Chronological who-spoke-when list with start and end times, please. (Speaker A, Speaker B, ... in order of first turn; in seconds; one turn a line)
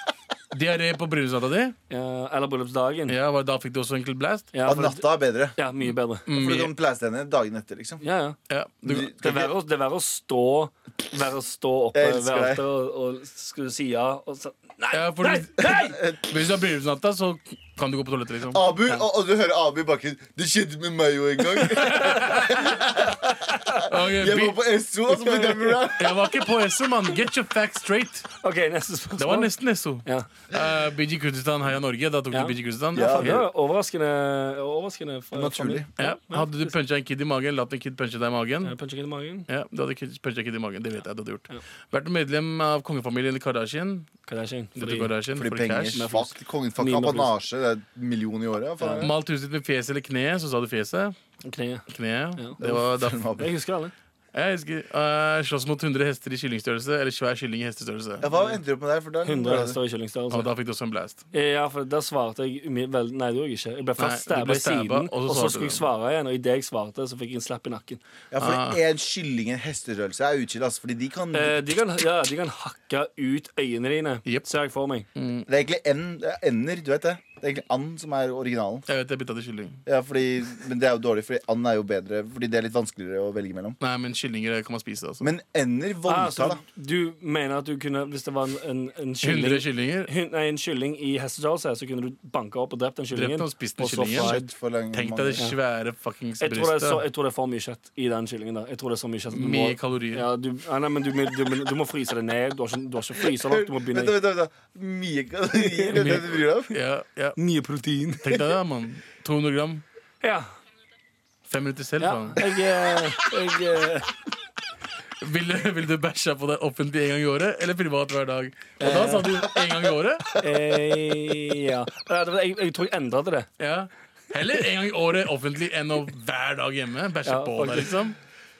Speaker A: 0.5-1.7
Speaker B: 1.9-3.1
Speaker A: 3.1-4.5
Speaker B: 4.5-6.3
Speaker C: 4.6-5.6
Speaker A: 6.2-6.7
Speaker C: 6.3-8.0
Speaker B: 8.0-8.4
Speaker A: 8.5-9.1
Speaker C: 8.8-9.5
Speaker B: 8.9-16.0
Speaker C: 11.9-12.6
Speaker A: 14.9-18.6
Speaker C: 15.8-16.2
Speaker C: 18.5-26.4
Speaker A: 21.6-22.8
Speaker B: 23.5-23.8
Speaker A: 23.9-24.6
Speaker B: 25.1-25.9
Speaker A: 25.9-28.3
Speaker B: 28.4-29.5
Speaker A: 29.2-33.5
Speaker B: 30.0-30.3
Speaker B: 32.3-36.7
Speaker C: 32.9-33.4
Speaker C: 35.3-35.9
Speaker A: 36.0-38.8
Speaker B: 38.6-39.5
Speaker A: 39.5-44.1
Speaker B: 44.3-45.1
Speaker A: 44.8-46.1
Speaker C: 45.3-49.1
Speaker B: 45.9-47.3
Speaker B: 48.8-49.1
Speaker A: 49.0-51.1
Speaker B: 51.4-52.6
Speaker A: 51.9-53.4
Speaker C: 52.6-53.5
Speaker B: 53.4-53.9
Speaker A: 54.3-58.3
Speaker C: 58.2-59.8
Speaker B: 59.2-60.5
Speaker A: 60.3-61.2
Speaker B: 61.3-68.0
Speaker A: 64.0-65.8
Speaker C: 68.3-71.6
Speaker A: 68.4-68.8
Speaker B: 71.3-75.1
Speaker A: 75.2-75.5
Speaker C: 75.5-78.8
Speaker A: 78.9-79.8
Speaker C: 79.8-83.8
Speaker A: 83.8-85.3
Speaker C: 85.2-86.6
Speaker B: 86.0-94.4
Speaker A: 89.2-90.1
Speaker A: 93.1-94.4
Speaker C: 94.1-95.4
Speaker A: 94.9-97.0
Speaker B: 96.4-104.1
Speaker A: 99.3-100.3
Speaker C: 103.3-106.7
Speaker B: 105.5-106.1
Speaker A: 105.9-107.4
Speaker B: 107.4-108.3
Speaker A: 108.2-109.8
Speaker B: 110.2-110.5
Speaker A: 111.5-112.4
Speaker B: 112.0-114.1
Speaker A: 115.2-120.4
Speaker B: 118.8-119.3
Speaker C: 118.8-119.6
Speaker B: 120.4-123.5
Speaker A: 123.6-128.2
Speaker B: 127.2-127.9